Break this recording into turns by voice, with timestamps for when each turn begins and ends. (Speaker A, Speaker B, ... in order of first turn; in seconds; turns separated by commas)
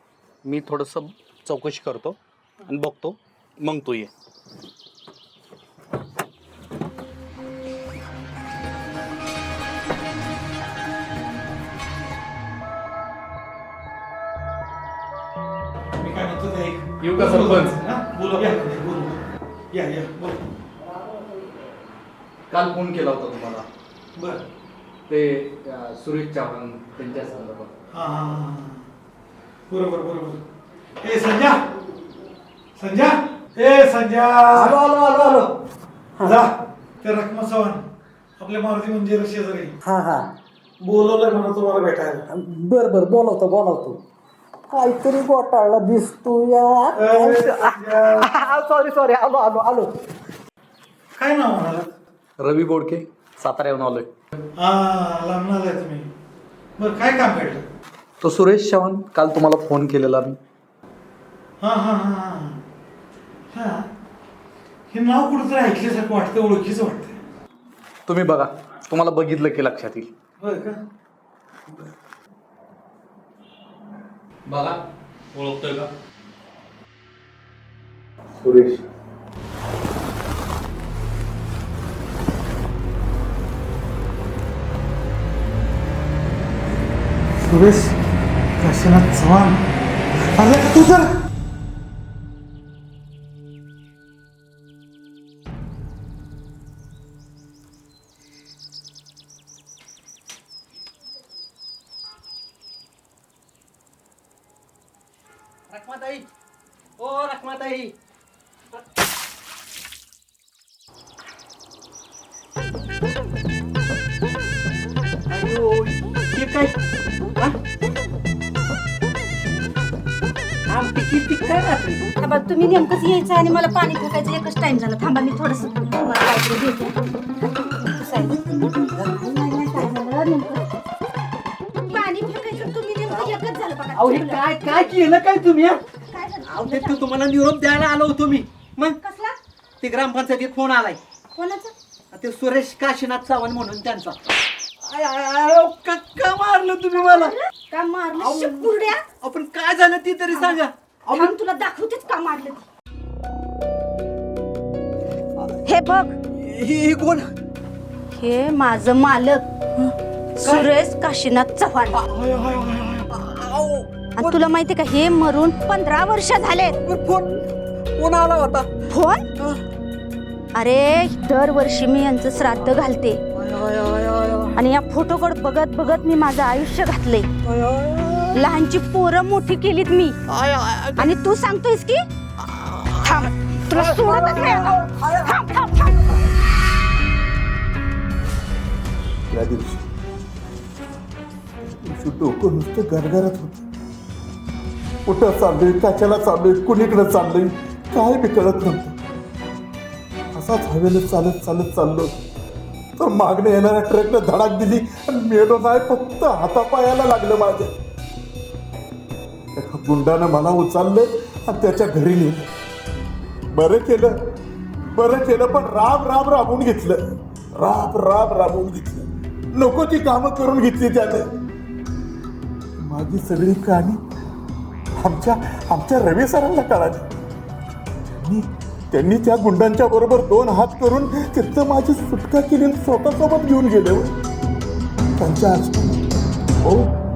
Speaker A: 0.4-4.1, Speaker B: 16.0-19.2, Speaker A: 17.0-17.8, Speaker B: 19.7-20.4, Speaker A: 22.5-23.7, Speaker B: 24.2-24.4, Speaker A: 25.1-27.7, Speaker B: 27.9-28.8, Speaker B: 29.7-30.4, Speaker B: 31.0-31.6, Speaker B: 32.8-35.5, Speaker C: 34.5-35.5, Speaker B: 36.2-37.9, Speaker B: 38.4-39.8, Speaker C: 39.8-40.3, Speaker B: 40.8-42.2, Speaker C: 42.3-44.0, Speaker C: 44.7-49.9, Speaker B: 47.0-48.3, Speaker B: 51.2-51.9, Speaker A: 52.4-54.1, Speaker B: 54.6-56.1, Speaker B: 56.8-57.6, Speaker A: 58.2-60.4, Speaker B: 61.6-62.6, Speaker B: 63.5-63.9, Speaker B: 64.9-67.2, Speaker A: 68.1-70.1, Speaker B: 70.4-70.8, Speaker A: 74.5-74.8, Speaker A: 75.3-75.9, Speaker A: 78.4-78.8, Speaker B: 87.4-88.0, Speaker B: 88.6-89.7, Speaker B: 90.4-91.1, Speaker C: 105.7-106.0, Speaker C: 107.0-107.9, Speaker C: 115.3-115.7, Speaker C: 116.3-116.7, Speaker C: 120.7-121.8, Speaker D: 122.0-127.0, Speaker D: 127.7-130.7, Speaker D: 131.9-134.7, Speaker C: 134.0-135.6, Speaker D: 135.7-137.1, Speaker C: 136.5-138.8, Speaker D: 138.8-139.4, Speaker C: 139.8-141.0, Speaker D: 141.3-141.7, Speaker C: 142.1-144.2, Speaker C: 144.8-147.3, Speaker D: 147.1-149.2, Speaker C: 149.2-151.2, Speaker D: 150.2-152.7, Speaker D: 155.6-156.2, Speaker C: 156.5-157.0, Speaker D: 158.1-162.1, Speaker B: 162.1-163.1, Speaker C: 163.2-163.7, Speaker D: 164.1-166.9, Speaker C: 166.9-167.2, Speaker C: 168.0-168.6, Speaker D: 168.8-169.3, Speaker D: 170.5-173.2, Speaker C: 173.6-174.4, Speaker D: 174.5-177.3, Speaker C: 177.9-178.2, Speaker D: 178.3-180.2, Speaker D: 180.8-182.1, Speaker D: 182.9-186.1, Speaker E: 189.3-189.8, Speaker E: 191.8-193.7, Speaker E: 195.1-198.9, Speaker E: 200.3-202.1, Speaker E: 203.0-207.7, Speaker E: 209.6-212.5, Speaker E: 213.5-214.2, Speaker E: 214.9-221.3, Speaker E: 222.8-224.0, Speaker E: 225.0-227.1, Speaker E: 228.0-234.1, Speaker E: 235.2-236.0, Speaker E: 236.6-236.9